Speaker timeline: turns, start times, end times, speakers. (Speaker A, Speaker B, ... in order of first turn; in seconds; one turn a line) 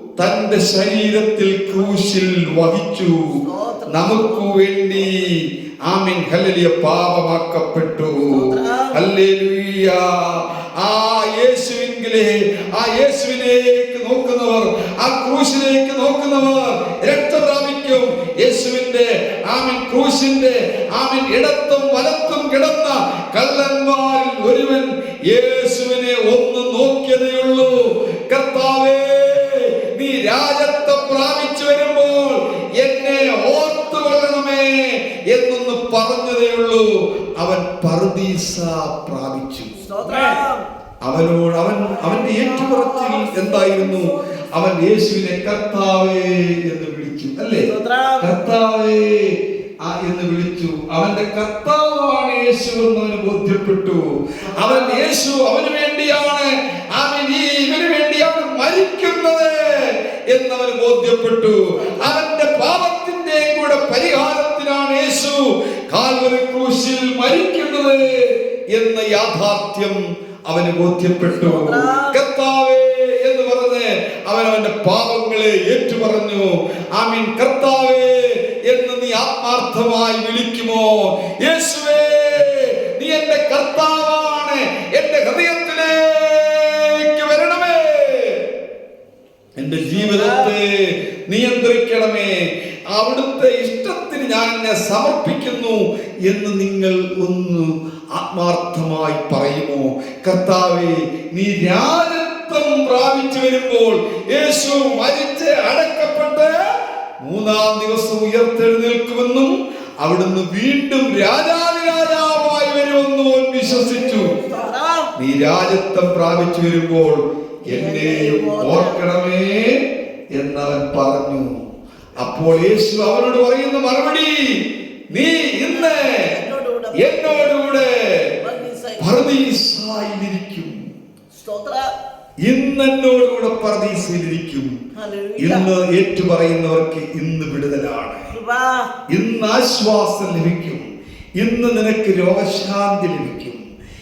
Speaker A: 0.2-3.4
Speaker B: 3.4-5.3
Speaker A: 3.9-8.4
Speaker B: 8.3-9.0
Speaker A: 8.9-39.9
Speaker B: 33.2-33.5
Speaker B: 39.8-40.6
Speaker A: 41.0-47.7
Speaker B: 47.7-48.4
Speaker A: 48.2-54.0
Speaker B: 54.4-55.1
Speaker A: 54.5-88.5
Speaker B: 71.3-72.2
Speaker A: 89.6-106.5
Speaker B: 89.9-90.5
Speaker A: 107.2-114.4
Speaker B: 114.2-115.1
Speaker A: 115.2-121.5
Speaker B: 117.7-119.0
Speaker A: 122.2-124.6
Speaker A: 125.1-126.3
Speaker B: 125.7-127.6
Speaker A: 127.0-128.3
Speaker B: 128.4-129.2
Speaker A: 129.0-130.8
Speaker B: 131.3-131.9
Speaker A: 132.4-134.7
Speaker B: 134.9-135.7
Speaker A: 135.4-138.3
Speaker B: 138.3-138.9
Speaker A: 139.1-140.9
Speaker A: 141.4-143.6